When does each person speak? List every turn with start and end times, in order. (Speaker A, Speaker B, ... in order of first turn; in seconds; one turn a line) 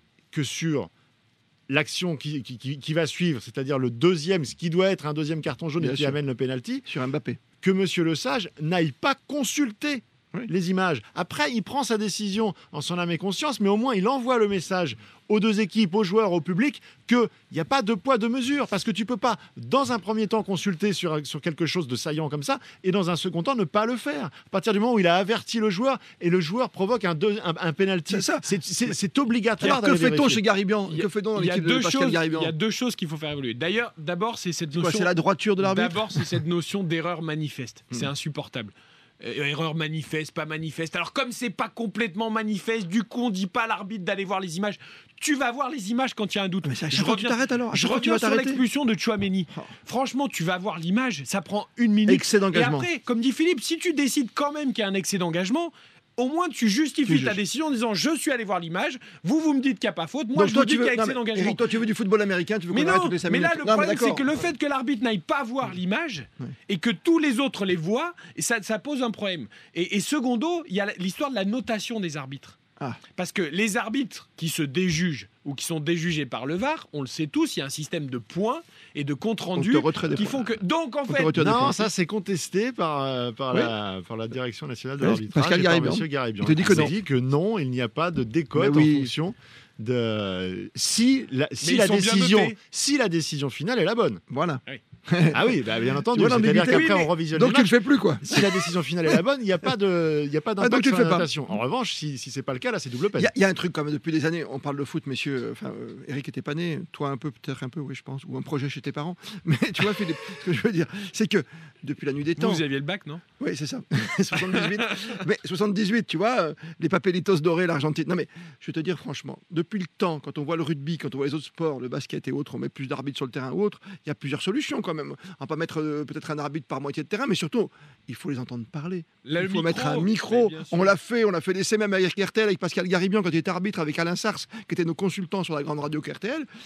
Speaker A: 0.3-0.9
Speaker A: 1.7-6.9
Speaker B: 5.8-6.2
Speaker B: 6.9-7.4
Speaker A: 7.6-30.4
Speaker B: 28.1-28.4
Speaker B: 29.6-32.5
Speaker C: 30.9-61.7
Speaker B: 34.7-36.3
Speaker B: 46.6-48.6
Speaker B: 52.1-52.9
Speaker B: 57.1-57.4
Speaker B: 60.3-64.3
Speaker C: 62.7-72.6
Speaker C: 73.2-81.4
Speaker B: 79.5-80.4
Speaker B: 81.1-81.9
Speaker A: 81.4-94.2
Speaker B: 85.0-86.9
Speaker B: 88.5-89.1
Speaker C: 91.6-92.6
Speaker B: 94.3-95.6
Speaker A: 95.3-103.3
Speaker B: 96.1-99.2
Speaker C: 96.7-97.1
Speaker B: 100.6-101.3
Speaker B: 103.2-112.6
Speaker C: 112.4-113.2
Speaker B: 113.4-136.5
Speaker C: 114.3-115.2
Speaker C: 129.2-131.0